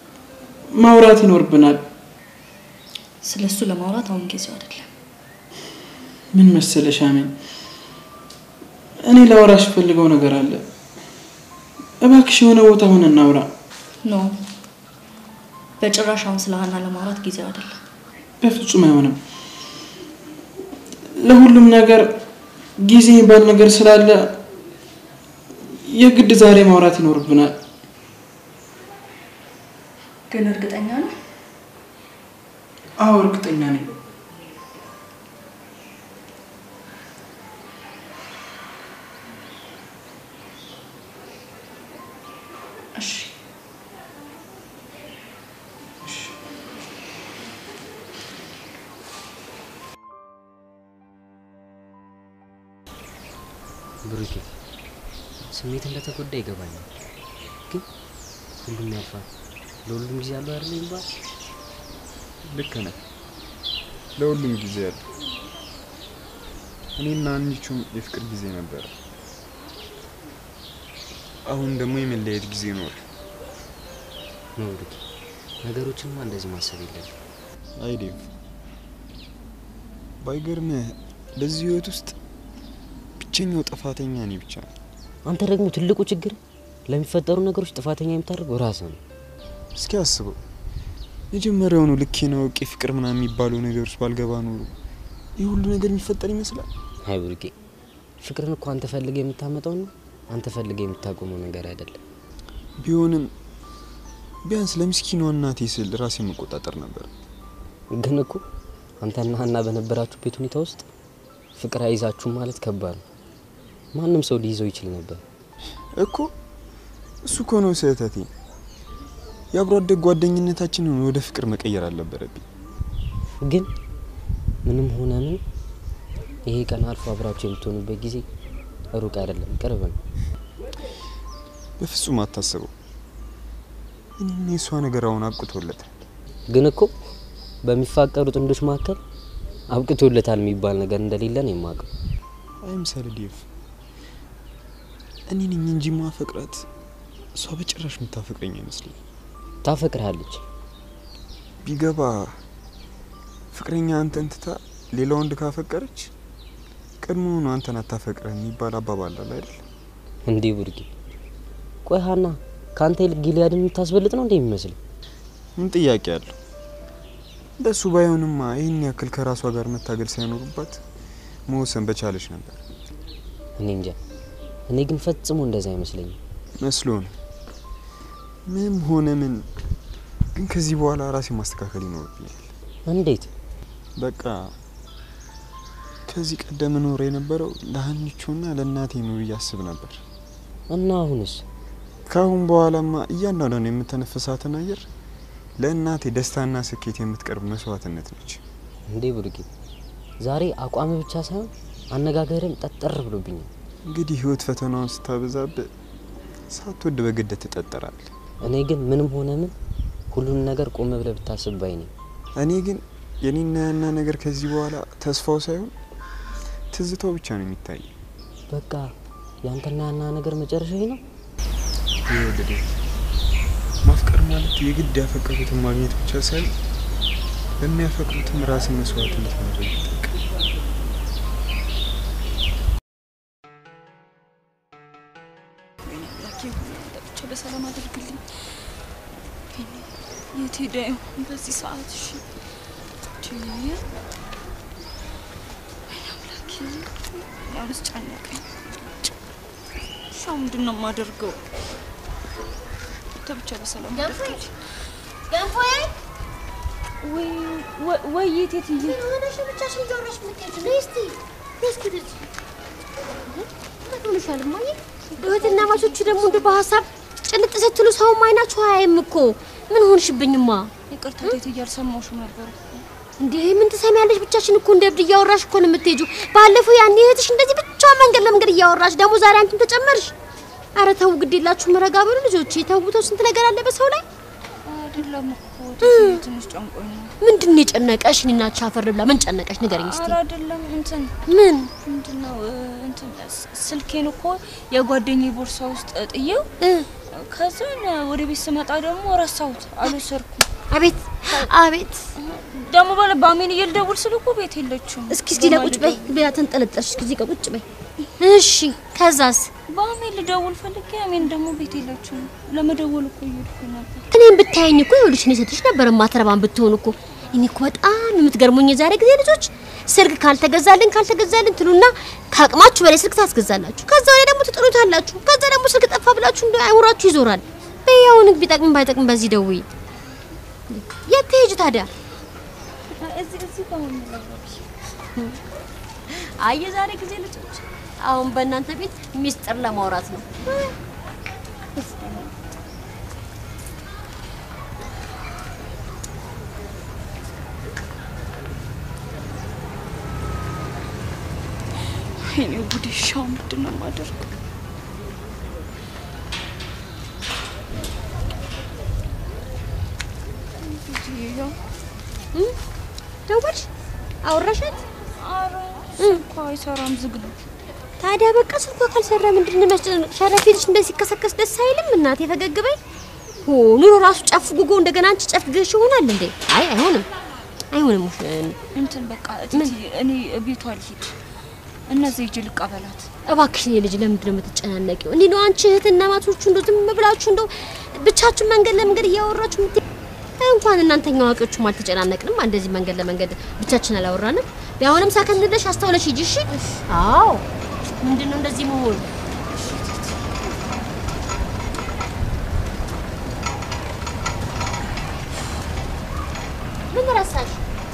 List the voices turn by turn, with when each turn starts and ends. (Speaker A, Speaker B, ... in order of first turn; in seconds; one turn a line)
Speaker A: 0.8-1.8
Speaker B: 3.2-4.9
Speaker A: 6.3-7.3
Speaker A: 9.1-10.6
Speaker A: 12.0-13.5
Speaker B: 14.0-14.3
Speaker B: 15.8-17.8
Speaker A: 18.4-19.2
Speaker A: 21.2-22.1
Speaker A: 22.8-24.3
Speaker A: 25.8-27.5
Speaker B: 30.3-31.1
Speaker A: 33.0-33.9
Speaker B: 43.0-43.3
Speaker A: 46.0-46.3
Speaker C: 54.0-54.5
Speaker C: 55.5-56.9
Speaker C: 58.6-59.3
Speaker C: 59.8-61.0
Speaker D: 62.5-63.0
Speaker D: 64.2-65.0
Speaker D: 67.0-68.9
Speaker D: 71.5-73.0
Speaker C: 74.6-75.0
Speaker C: 75.6-77.1
Speaker D: 77.8-78.2
Speaker D: 80.2-82.1
Speaker D: 83.2-84.7
Speaker C: 85.2-86.4
Speaker C: 86.9-89.0
Speaker D: 89.8-90.4
Speaker D: 91.3-94.7
Speaker D: 95.4-96.7
Speaker C: 97.0-97.5
Speaker C: 98.2-102.0
Speaker D: 102.8-103.3
Speaker D: 104.4-107.1
Speaker C: 107.9-108.4
Speaker C: 109.0-110.8
Speaker C: 111.6-113.0
Speaker C: 113.9-115.2
Speaker D: 116.0-116.3
Speaker D: 117.2-118.3
Speaker D: 119.5-122.4
Speaker C: 124.6-125.4
Speaker C: 126.5-128.2
Speaker C: 128.9-130.0
Speaker D: 131.8-132.7
Speaker D: 134.2-135.9
Speaker C: 136.5-136.9
Speaker C: 137.6-139.0
Speaker C: 139.7-141.9
Speaker D: 142.6-143.4
Speaker D: 145.3-146.7
Speaker D: 147.3-148.9
Speaker C: 149.6-150.4
Speaker D: 151.6-152.3
Speaker D: 153.5-156.1
Speaker D: 157.0-159.6
Speaker C: 160.3-160.9
Speaker C: 161.8-164.8
Speaker D: 165.6-166.3
Speaker D: 167.6-170.8
Speaker D: 171.5-172.6
Speaker C: 173.6-173.9
Speaker C: 174.7-176.2
Speaker D: 176.6-177.1
Speaker D: 178.5-179.5
Speaker D: 180.3-182.5
Speaker C: 182.9-183.3
Speaker D: 184.0-184.5
Speaker D: 186.1-190.0
Speaker C: 190.7-191.4
Speaker D: 192.1-194.8
Speaker D: 195.6-198.4
Speaker C: 198.9-199.5
Speaker C: 200.2-203.5
Speaker D: 203.9-205.7
Speaker D: 206.5-208.1
Speaker C: 208.4-209.5
Speaker C: 210.1-211.9
Speaker D: 212.4-215.7
Speaker D: 216.7-217.9
Speaker C: 218.5-218.9
Speaker C: 219.4-221.0
Speaker D: 222.1-222.6
Speaker D: 223.8-226.5
Speaker D: 227.6-230.2
Speaker E: 235.8-238.2
Speaker E: 239.6-242.2
Speaker E: 243.2-243.8
Speaker E: 245.9-248.9
Speaker E: 250.1-251.4
Speaker E: 253.2-254.5
Speaker F: 253.9-254.4
Speaker F: 255.3-255.9
Speaker E: 257.0-259.0
Speaker F: 258.8-262.2
Speaker F: 263.4-270.7
Speaker E: 265.1-266.6
Speaker E: 270.9-272.8
Speaker F: 273.2-280.1
Speaker F: 280.8-284.0
Speaker E: 284.6-287.1
Speaker F: 285.8-286.2
Speaker F: 287.2-290.2
Speaker E: 289.7-291.1
Speaker F: 291.3-291.7
Speaker E: 291.8-296.5
Speaker F: 296.6-296.9
Speaker E: 297.1-300.4
Speaker F: 300.7-302.1
Speaker E: 302.2-306.0
Speaker F: 305.1-307.6
Speaker F: 308.2-309.5
Speaker E: 309.7-314.0
Speaker F: 314.1-329.6
Speaker F: 330.7-331.9
Speaker E: 332.9-334.6
Speaker E: 336.4-337.6
Speaker F: 338.0-340.5
Speaker E: 352.3-354.1
Speaker E: 360.6-361.5
Speaker F: 363.3-363.7
Speaker F: 364.2-364.8
Speaker E: 365.2-367.3
Speaker F: 366.0-366.2
Speaker F: 368.0-372.8
Speaker F: 373.4-377.1
Speaker F: 377.7-378.6
Speaker E: 378.7-381.1
Speaker E: 381.9-383.1
Speaker F: 383.3-389.8
Speaker F: 390.4-397.4
Speaker F: 398.0-399.1
Speaker F: 406.9-407.6